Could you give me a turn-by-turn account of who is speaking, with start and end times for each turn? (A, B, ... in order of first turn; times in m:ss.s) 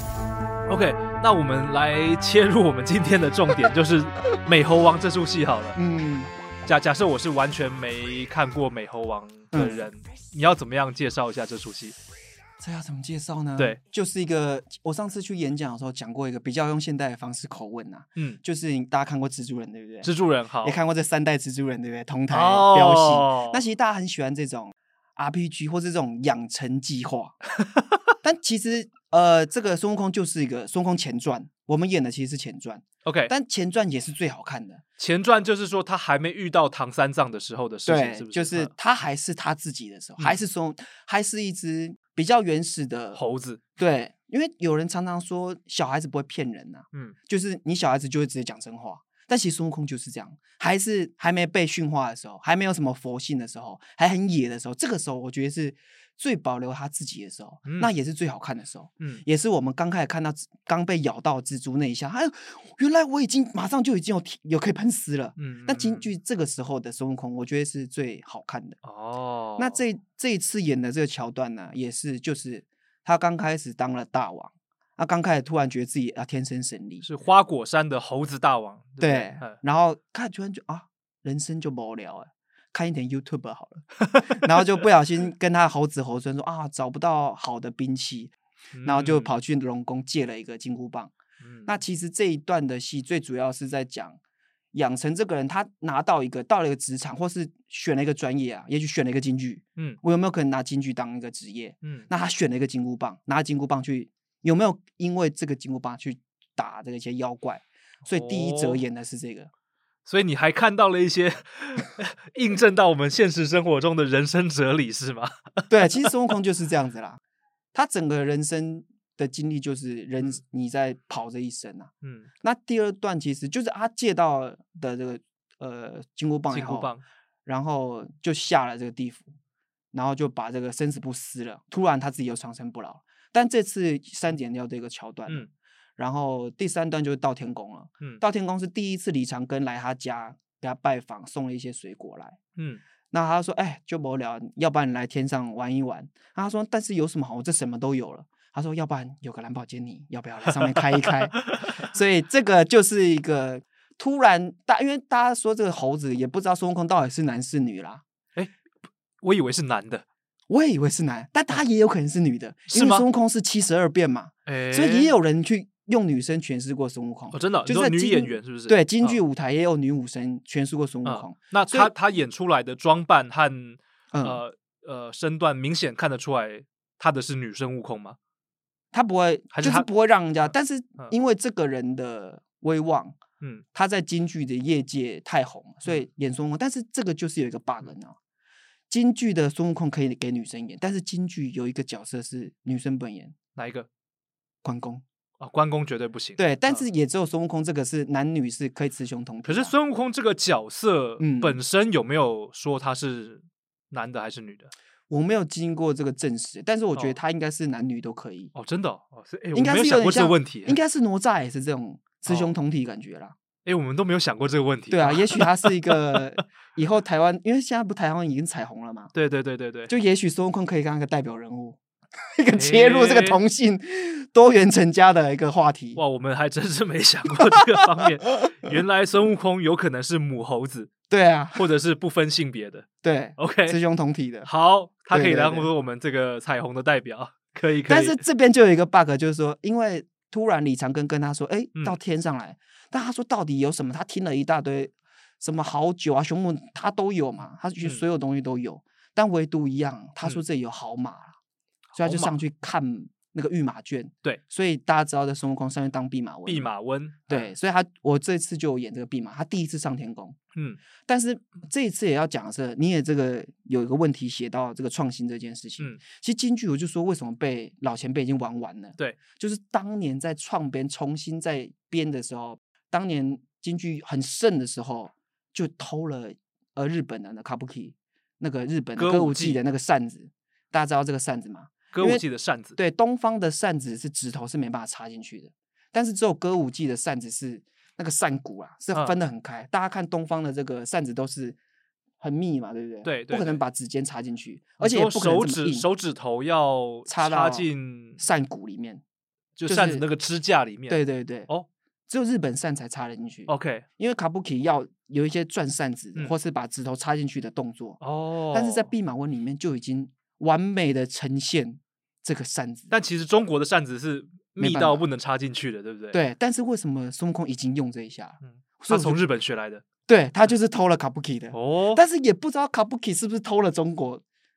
0:00.7-0:05.8 A
0:05.7-0:06.3 B
0:06.6-0:12.0 A
0:09.5-0:09.8 B
0:12.6-0:20.1 B
0:20.0-0:20.8 A
0:20.6-0:27.4 B
0:22.3-0:23.6 A
0:27.6-0:28.0 A
0:28.2-0:34.8 B
0:33.0-0:33.3 A
0:35.0-0:38.7 A
0:37.8-0:43.2 B
0:43.1-0:43.6 A
0:43.8-1:08.8 B
0:57.6-0:57.9 A
1:05.4-1:06.1 A
1:08.8-1:09.8 A
1:09.6-1:17.1 B
1:17.0-1:19.6 A
1:19.0-1:28.3 B
1:24.0-1:24.4 A
1:28.7-1:29.3 A
1:28.8-1:31.1 B
1:31.4-1:31.7 A
1:31.6-1:34.2 B
1:34.7-1:49.5 B
1:41.8-1:42.1 A
1:48.0-1:48.8 A
1:50.0-1:56.1 A
1:55.7-1:57.2 B
1:57.7-2:01.9 B
2:02.0-2:02.3 A
2:02.4-2:06.9 B
2:06.5-2:07.0 A
2:07.4-2:09.3 B
2:09.9-2:22.4 B
2:22.6-2:22.8 A
2:23.1-2:38.0 B
2:30.6-2:31.8 A
2:39.2-2:40.0 A
2:40.5-2:51.9 B
2:42.7-2:43.0 A
2:44.5-2:45.1 A
2:47.3-2:49.2 A
2:51.0-2:58.2 A
2:54.1-2:54.4 B
2:58.9-3:03.2 B
2:59.5-2:59.9 A
3:03.7-3:08.2 B
3:08.9-3:13.3 B
3:13.6-3:13.9 A
3:14.6-3:15.0 B
3:15.4-3:16.8 A
3:16.4-3:19.7 B
3:19.4-3:24.7 A
3:21.2-3:21.6 B
3:25.1-3:28.5 B
3:28.5-3:30.8 A
3:29.5-3:33.4 B
3:32.3-3:32.5 A
3:33.6-3:36.2 A
3:34.9-3:39.1 B
3:39.1-3:39.9 A
3:39.9-3:41.8 B
3:42.4-3:46.0 B
3:42.5-3:43.4 A
3:46.0-3:50.9 A
3:47.5-3:48.5 B
3:51.1-3:51.6 B
3:51.6-3:53.8 A
3:53.0-3:54.5 B
3:54.4-3:58.2 A
3:55.1-3:55.7 B
3:57.9-4:11.4 B
4:11.9-4:12.4 A
4:12.0-4:16.7 B
4:16.4-4:17.5 A
4:17.3-4:20.4 B
4:21.1-4:42.2 B
4:39.0-4:39.6 A
4:41.9-4:42.8 A
4:42.8-4:51.6 B
4:52.2-4:55.9 B
4:53.0-4:53.6 A
4:54.8-4:58.2 A
4:57.1-4:57.7 B
4:58.2-4:59.0 B
4:59.6-5:01.7 A
4:59.7-5:00.0 B
5:00.9-5:01.5 B
5:02.1-5:08.0 B
5:03.5-5:03.8 A
5:08.0-5:08.9 A
5:08.5-5:12.9 B
5:12.9-5:16.2 A
5:14.6-5:15.0 B
5:16.1-5:19.2 B
5:18.4-5:19.8 A
5:20.1-5:24.2 B
5:21.5-5:22.0 A